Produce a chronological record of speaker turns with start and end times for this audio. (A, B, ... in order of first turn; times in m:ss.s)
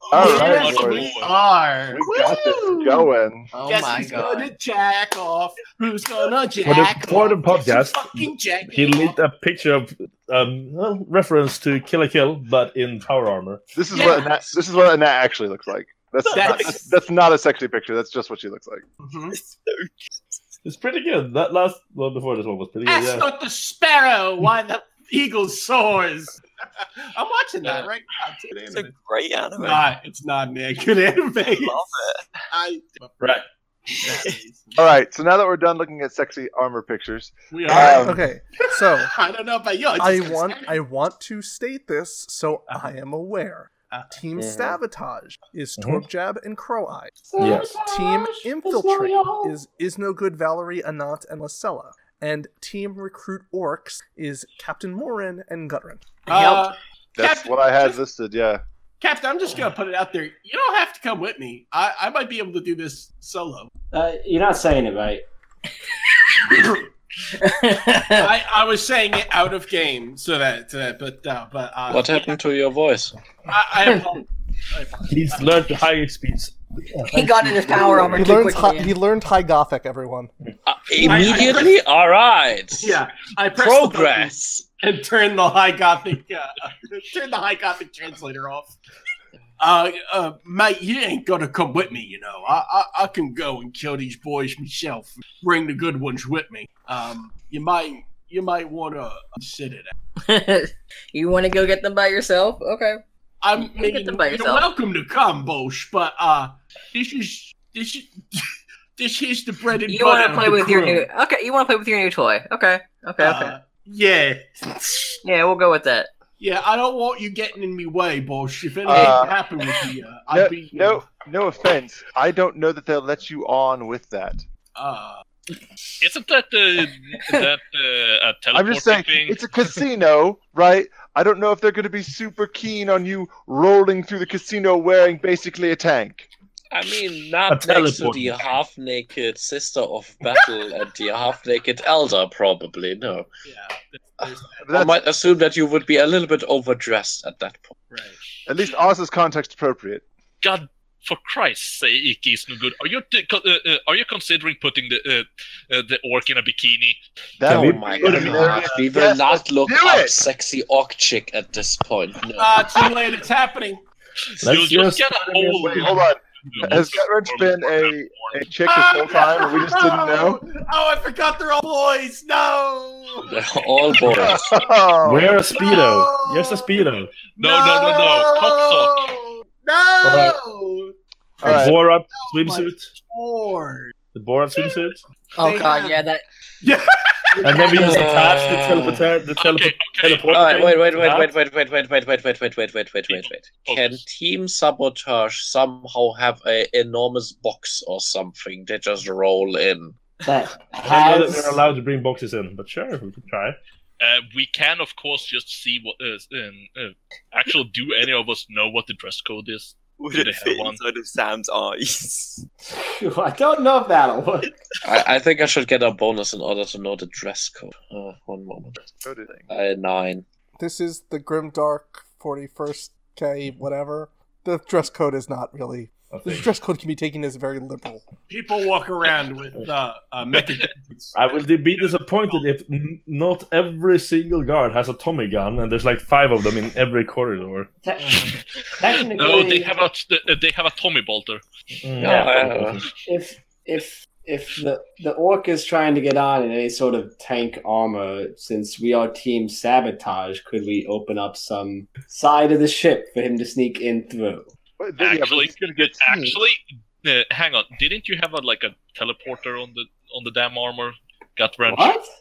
0:00.1-0:01.2 A
0:00.1-0:03.1 B
0:00.2-0:01.3 C
0:01.9-0:03.5 A
0:03.5-0:04.5 D
0:03.6-0:09.2 B
0:06.6-0:13.6 E
0:13.8-0:18.8 A
0:13.9-0:14.4 B
0:16.3-0:17.0 B
0:19.0-0:19.4 B
0:19.3-0:19.9 F
0:20.6-0:23.3 E
0:22.9-0:28.9 B
0:28.7-0:29.9 F
0:29.6-0:31.8 B
0:31.5-0:32.2 F
0:32.5-0:33.4 B
0:34.0-0:34.9 B
0:34.8-0:38.2 A
0:37.5-0:40.8 B
0:37.8-0:39.1 G
0:40.0-0:47.2 G
0:44.4-0:44.8 H
0:45.8-0:46.0 E
0:47.3-0:47.9 I
0:47.4-0:48.5 B
0:47.4-0:47.7 E
0:47.8-0:56.0 G
0:48.6-0:49.5 I
0:56.3-0:58.0 B
0:56.3-0:56.7 D
0:57.2-0:58.6 A
0:59.0-1:03.7 B
1:03.9-1:05.2 I
1:07.4-1:08.3 D
1:08.2-1:12.3 B
1:11.9-1:13.2 H
1:13.5-1:15.6 B
1:13.8-1:14.2 D
1:15.1-1:18.6 E
1:17.1-1:18.9 D
1:18.1-1:20.3 G
1:20.7-1:23.0 H
1:21.0-1:21.8 B
1:22.8-1:28.8 B
1:23.6-1:24.7 H
1:29.6-1:39.9 B
1:40.2-1:43.0 D
1:43.4-1:51.1 B
1:43.6-1:44.7 D
1:49.9-1:53.6 D
1:53.2-1:55.2 B
1:55.2-1:56.1 D
1:56.4-2:01.1 B
1:58.9-1:59.4 A
2:00.3-2:04.4 A
2:04.8-2:05.2 B
2:06.0-2:09.4 C
2:08.5-2:16.3 A
2:16.7-2:23.3 H
2:17.5-2:18.4 E
2:23.5-2:24.6 B
2:24.2-2:27.8 H
2:24.6-2:25.0 A
2:27.9-2:28.2 B
2:28.5-2:30.0 A
2:30.4-2:37.0 C
2:37.4-2:40.2 A
2:37.5-2:38.8 E
2:37.5-2:42.7 H
2:42.4-2:43.8 B
2:44.4-2:48.4 C
2:44.4-2:45.9 E
2:45.3-2:50.4 A
2:48.7-2:54.4 B
2:53.3-2:54.6 H
2:54.0-2:55.4 A
2:55.0-2:57.1 E
2:55.5-3:03.9 B
2:57.4-2:59.1 C
3:00.0-3:00.4 E
3:01.4-3:01.8 A
3:01.4-3:02.9 E
3:04.1-3:05.0 E
3:04.6-3:04.9 B
3:05.4-3:06.2 D
3:05.4-3:06.0 B
3:06.6-3:08.1 B
3:07.4-3:11.3 E
3:07.8-3:09.1 H
3:09.4-3:11.3 C
3:10.3-3:20.0 H
3:13.1-3:14.0 C
3:20.2-3:21.6 I
3:20.8-3:23.6 E
3:24.0-3:30.8 C
3:30.0-3:32.4 F
3:32.8-3:34.5 I
3:34.8-3:38.8 H
3:38.8-3:39.5 A
3:39.5-3:40.2 H
3:40.6-3:48.0 G
3:46.1-3:46.5 E
3:48.3-3:51.2 B
3:51.1-3:57.7 E
3:57.8-3:59.9 I
3:59.2-4:01.4 C
4:01.8-4:02.9 E
4:02.0-4:02.8 H
4:03.1-4:14.5 I
4:14.8-4:16.4 A
4:15.0-4:22.0 C
4:21.7-4:22.1 I